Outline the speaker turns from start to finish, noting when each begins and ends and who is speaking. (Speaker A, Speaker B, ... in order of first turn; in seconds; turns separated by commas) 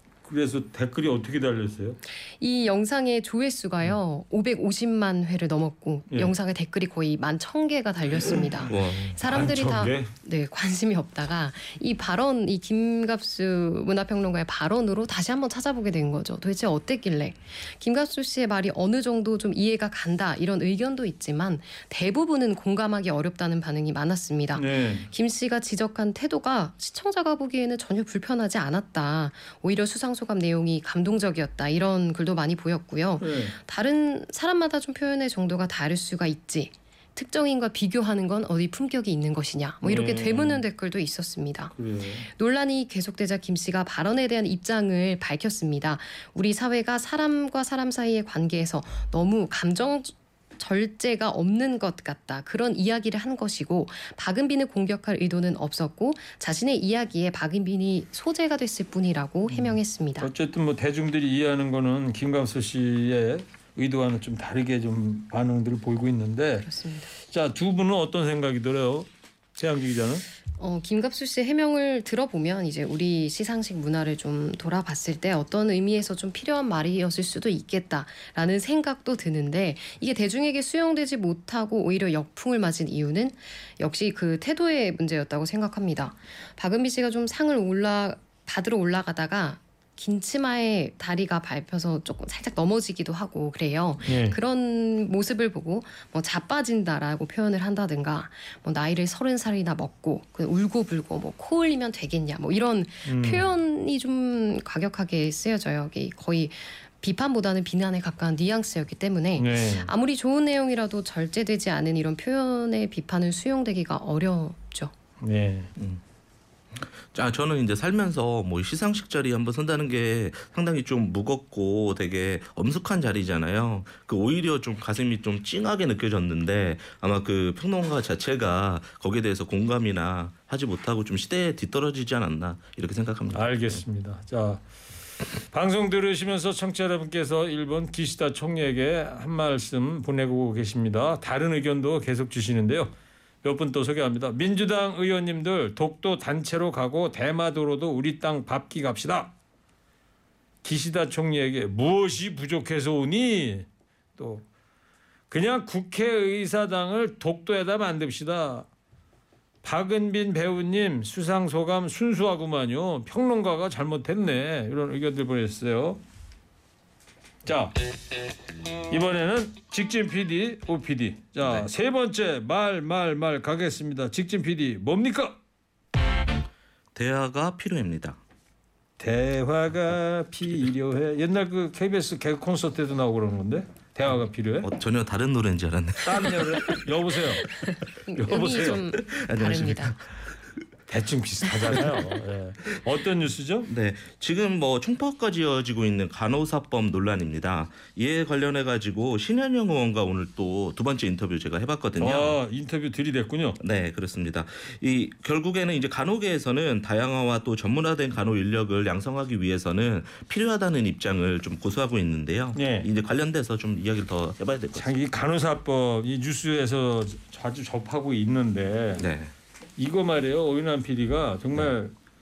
Speaker A: 0.2-2.0, Speaker B: 2.4-41.7, Speaker C: 8.7-9.2, Speaker A: 9.2-10.1, Speaker A: 24.6-25.1, Speaker A: 33.2-33.6, Speaker A: 39.8-40.6, Speaker A: 41.7-42.3, Speaker B: 42.3-60.3, Speaker A: 59.5-66.7, Speaker B: 66.6-67.1, Speaker A: 67.2-70.2, Speaker B: 70.6-114.9, Speaker A: 94.0-94.4, Speaker A: 103.1-103.5, Speaker A: 109.4-109.9, Speaker A: 115.2-115.7, Speaker C: 116.7-133.8, Speaker A: 133.3-134.6, Speaker A: 135.5-149.3, Speaker A: 150.6-154.4, Speaker A: 155.3-158.7, Speaker A: 159.6-166.0, Speaker A: 167.4-167.7, Speaker A: 168.9-175.4, Speaker C: 171.4-171.7, Speaker C: 176.9-178.2, Speaker A: 179.0-184.7, Speaker C: 184.6-186.8, Speaker A: 186.0-187.5, Speaker B: 187.7-189.9, Speaker A: 188.1-188.8, Speaker C: 188.3-190.1, Speaker A: 190.9-193.7, Speaker C: 191.6-191.9, Speaker C: 193.7-202.4, Speaker A: 202.0-203.6, Speaker C: 203.6-214.9, Speaker A: 212.6-212.9, Speaker A: 214.7-219.1, Speaker C: 219.0-219.3, Speaker A: 219.8-221.9